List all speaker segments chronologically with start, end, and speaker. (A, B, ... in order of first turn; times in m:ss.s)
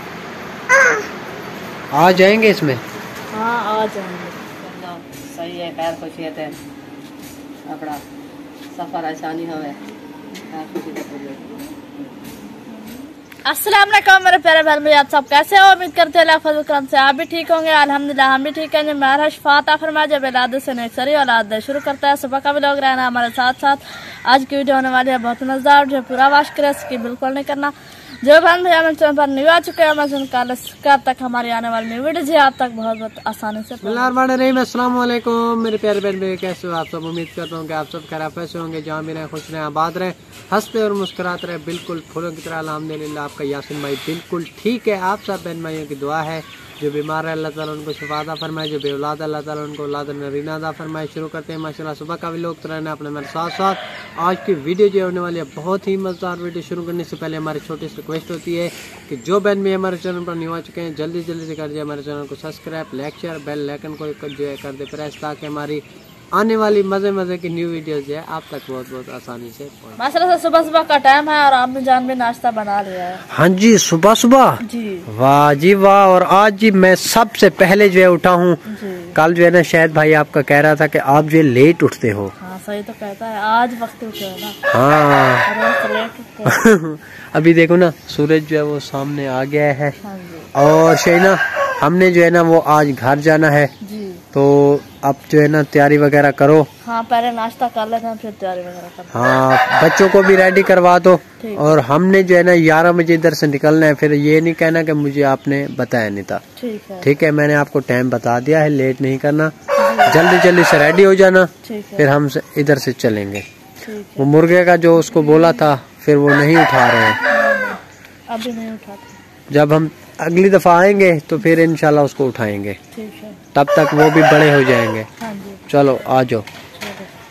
0:01.9-0:02.8 A
0:03.3-0:04.4 B
0:04.6-0:06.6 C
0:07.7-0:08.0 C
0:08.7-0:09.8 C
0:10.5-0:11.6 C
0:13.4-0:34.1 B
0:33.8-1:10.0 A
1:10.0-1:13.2 B
1:13.3-1:18.6 A
1:14.6-1:15.1 B
1:18.7-1:19.2 B
1:19.1-1:22.3 A
1:22.4-1:24.6 B
1:24.7-1:25.5 A
1:25.4-1:26.6 B
1:26.5-1:30.0 A
1:30.0-1:30.5 B
1:30.5-1:33.7 A
1:33.8-1:34.2 B
1:34.3-1:36.7 A
1:36.8-1:39.4 B
1:39.1-1:46.4 A
1:41.4-1:41.8 B
1:46.6-1:47.1 B
1:47.0-1:49.5 A
1:49.8-1:50.2 B
1:50.0-1:53.4 A
1:51.6-1:52.1 B
1:53.8-1:54.3 B
1:54.2-1:57.2 A
1:57.3-1:59.1 B
1:59.5-2:02.8 A
2:02.9-2:03.4 B
2:03.5-2:05.1 A
2:05.2-2:05.7 B
2:05.7-2:06.4 A
2:06.7-2:07.1 B